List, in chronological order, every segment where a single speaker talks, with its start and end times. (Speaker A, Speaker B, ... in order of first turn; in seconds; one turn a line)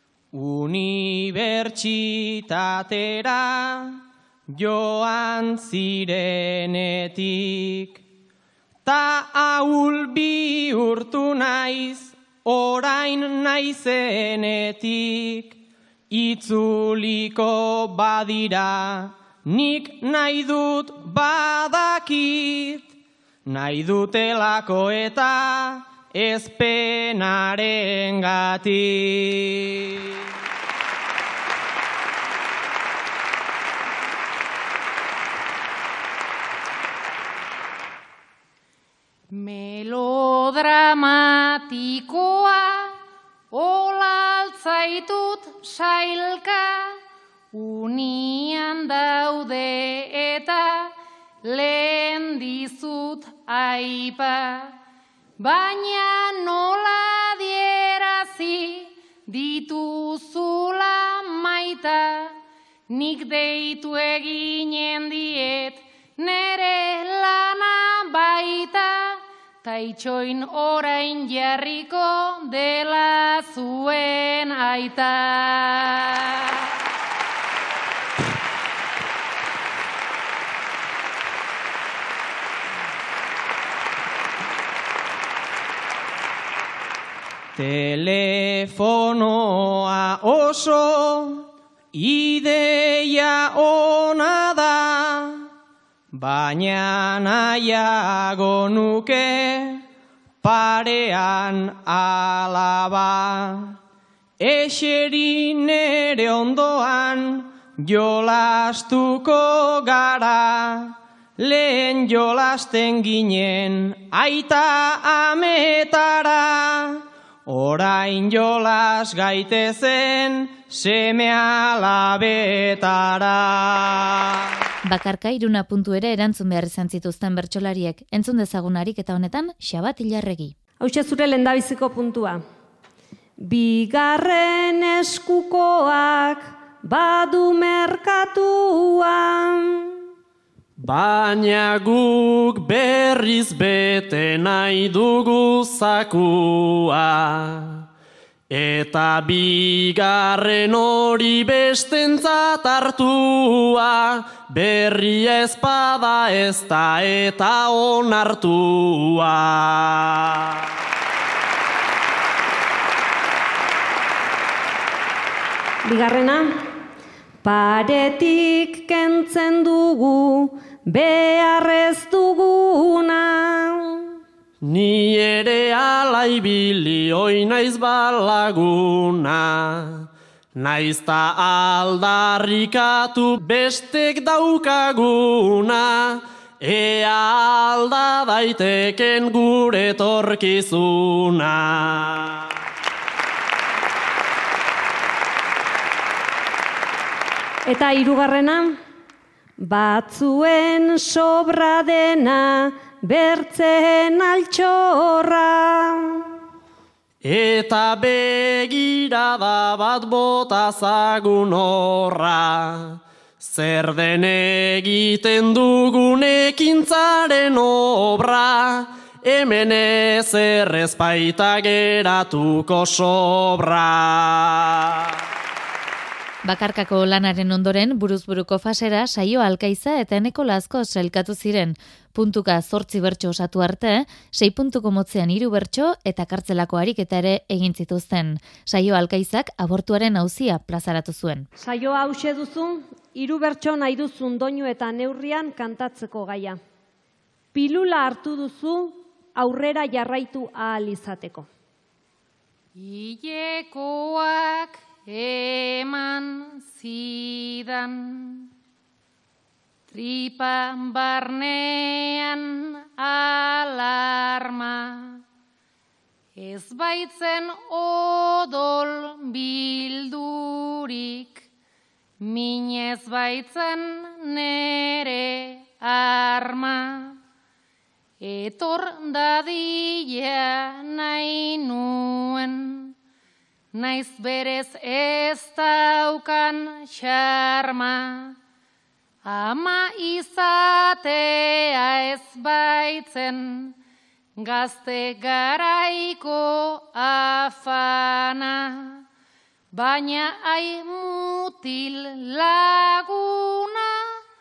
Speaker A: 0.3-8.0
Speaker A: 8.8-15.6
Speaker A: 16.1-22.9
Speaker A: 23.5-30.1
Speaker B: 39.3-43.0
Speaker B: 43.5-47.0
Speaker B: 47.5-50.9
Speaker B: 51.4-54.7
Speaker B: 55.4-62.4
Speaker B: 62.9-76.8
Speaker A: 87.5-95.5
Speaker A: 96.1-99.8
Speaker A: 100.4-103.8
Speaker A: 104.4-124.4
Speaker C: 124.8-130.6
Speaker D: 130.8-132.4
Speaker D: 133.4-140.0
Speaker E: 140.8-147.9
Speaker E: 148.5-160.5
Speaker D: 165.8-166.6
Speaker D: 167.4-174.2
Speaker E: 174.6-192.5
Speaker D: 197.7-198.8
Speaker D: 199.6-206.3
Speaker E: 207.2-224.9
Speaker C: 226.4-241.5
Speaker D: 241.6-246.6
Speaker D: 247.5-251.5
Speaker B: 252.8-258.5
Speaker B: 259.9-265.2
Speaker B: 266.4-271.5
Speaker B: 272.2-277.2
Speaker B: 278.2-282.9
Speaker B: 283.7-288.4
Speaker B: 289.2-293.8
Speaker B: 294.4-299.0
Speaker B: 299.7-304.2